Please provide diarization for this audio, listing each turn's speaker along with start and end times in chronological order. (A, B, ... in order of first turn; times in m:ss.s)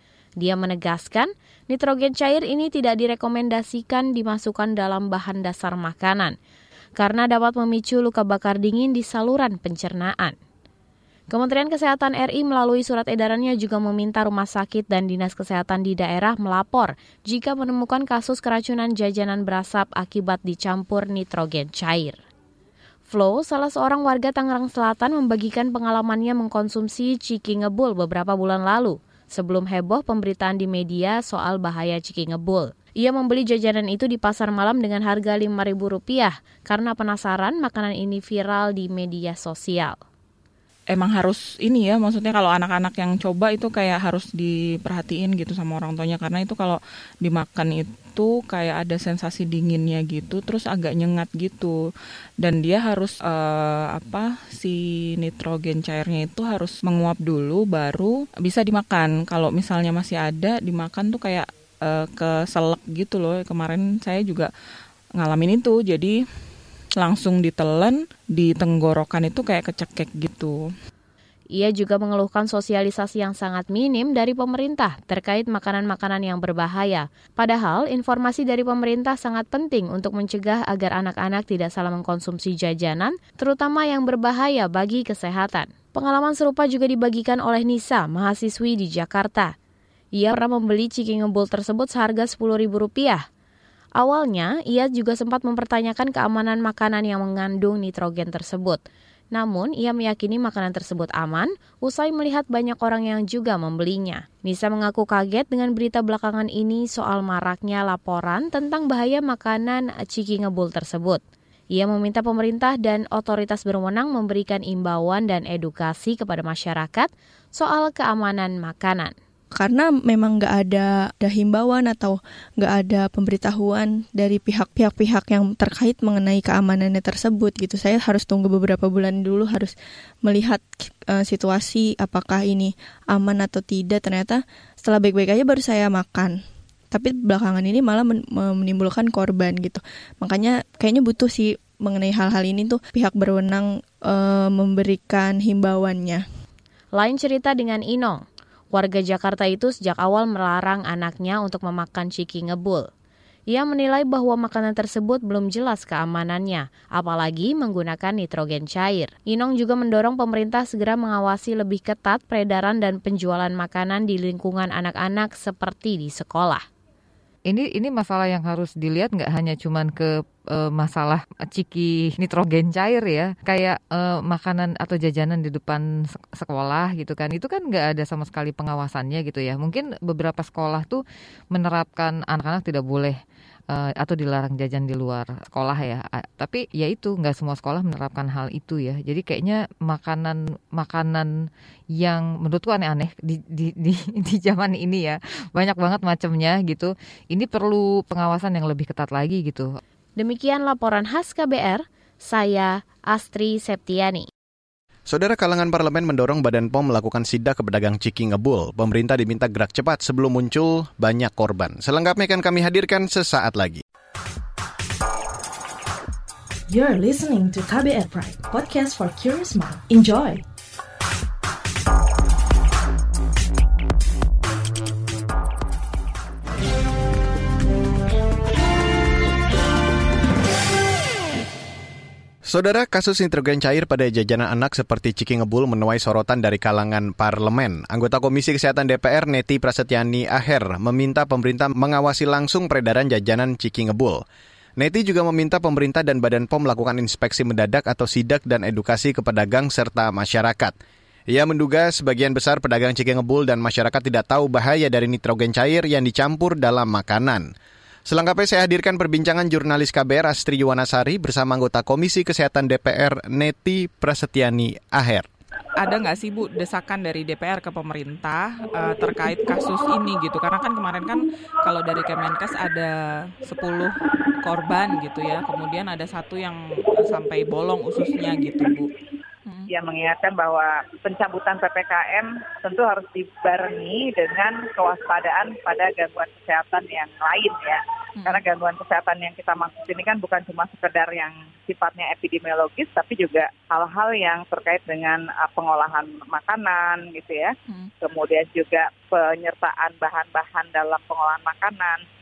0:00.4-0:06.4 A
0:07.0-0:10.4 A
0:11.3-0:22.2 A
0:23.1-0:40.0 A
0:40.9-0:51.8 B
0:52.4-1:04.5 B
1:05.2-1:06.2 B
1:07.0-1:10.6 B
1:11.5-1:29.5 A
1:30.2-1:33.2 A
1:34.0-1:38.8 A
1:39.3-1:51.2 A
1:51.7-1:59.2 A
1:59.6-2:09.7 C
2:10.2-2:16.4 C
2:16.9-2:26.2 C
2:27.0-2:32.9 A
2:33.5-2:46.6 A
2:47.5-3:03.2 D
3:03.7-3:11.3 D
3:12.0-3:19.7 D
3:20.2-3:24.3 A
3:25.1-3:33.8 E
3:36.7-3:40.4 F
3:52.4-4:04.2 E
4:04.8-4:10.7 E
4:11.3-4:17.5 E
4:18.1-4:25.3 E
4:25.8-4:38.9 B
4:39.7-5:02.0 G
4:48.2-4:48.4 B